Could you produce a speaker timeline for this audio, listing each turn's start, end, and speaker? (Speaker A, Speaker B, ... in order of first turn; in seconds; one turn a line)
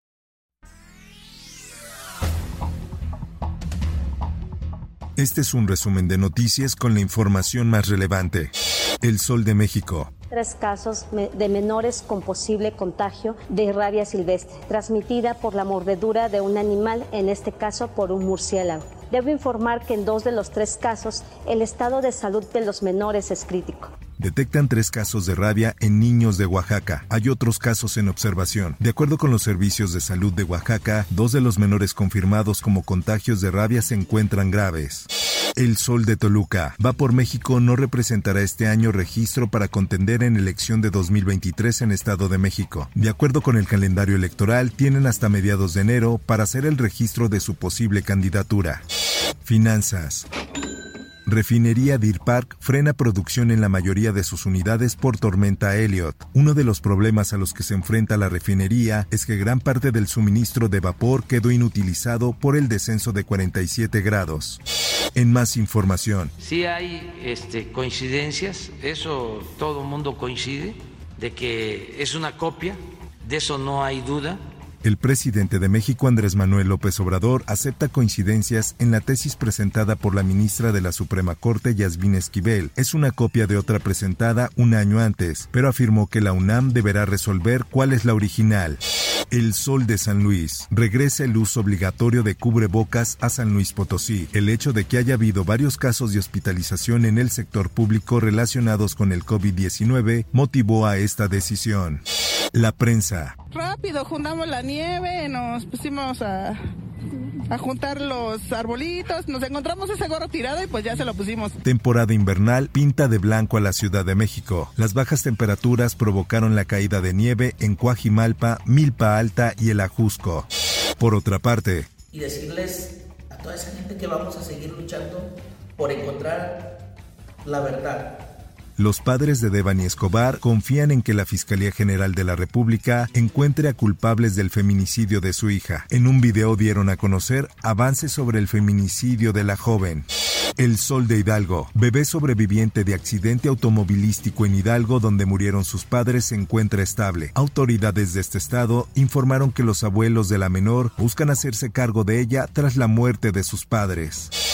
Speaker A: 5.2-10.1
Speaker B: 10.3-23.9
Speaker A: 24.2-48.8
Speaker A: 49.4-50.3
Speaker A: 51.3-64.6
Speaker A: 65.1-66.3
Speaker C: 66.4-74.4
Speaker A: 74.8-102.0
Speaker A: 102.5-103.3
Speaker D: 103.5-106.6
Speaker D: 107.5-111.5
Speaker A: 111.6-120.5
Speaker A: 121.0-121.9
Speaker E: 122.1-126.6
Speaker E: 127.4-128.1
Speaker A: 128.8-140.1
Speaker A: 140.6-154.3